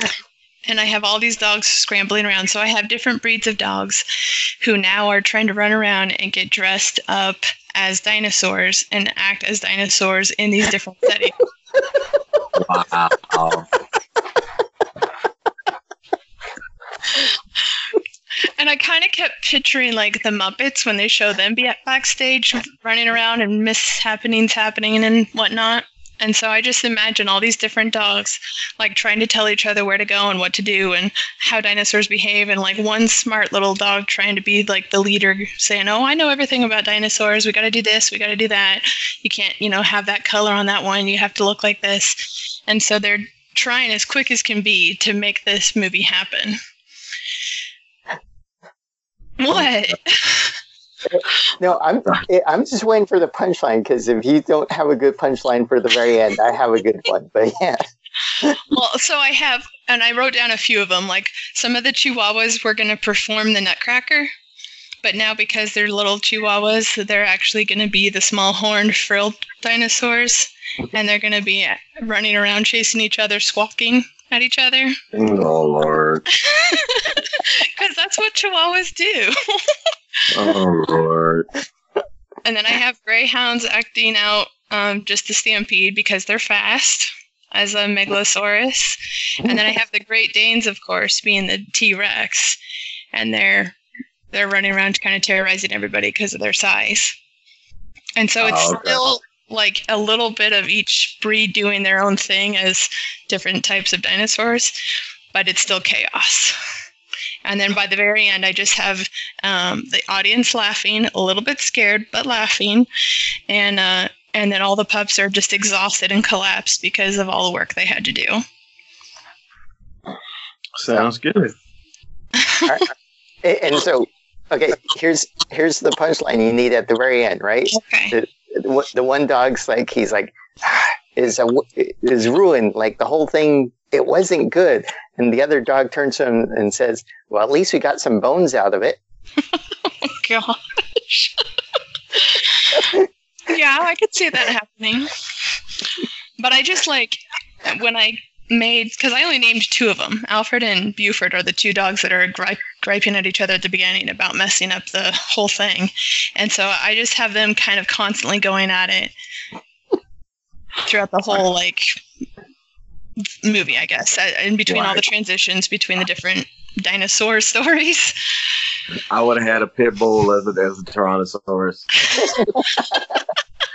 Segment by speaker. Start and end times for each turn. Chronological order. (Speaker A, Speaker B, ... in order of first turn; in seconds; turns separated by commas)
Speaker A: 0.7-11.4, Speaker B: 12.5-13.7, Speaker A: 18.6-46.6, Speaker A: 49.4-50.5, Speaker C: 51.1-57.8, Speaker A: 58.4-64.3, Speaker A: 65.0-75.0, Speaker B: 75.1-76.2, Speaker A: 76.3-79.3, Speaker B: 80.3-81.5, Speaker A: 82.4-92.6, Speaker A: 93.1-93.8, Speaker A: 94.3-97.1, Speaker A: 98.2-104.7, Speaker B: 98.4-99.0, Speaker A: 105.3-106.5, Speaker A: 107.4-112.9, Speaker A: 113.5-118.4, Speaker B: 120.8-121.5, Speaker A: 122.4-122.8, Speaker C: 123.4-139.0, Speaker A: 127.7-128.1, Speaker A: 139.8-141.3, Speaker A: 142.1-145.1, Speaker C: 142.8-143.1, Speaker A: 146.4-159.1, Speaker A: 160.8-161.9, Speaker A: 163.4-168.2, Speaker B: 164.7-165.0, Speaker B: 169.1-171.9, Speaker A: 172.1-172.9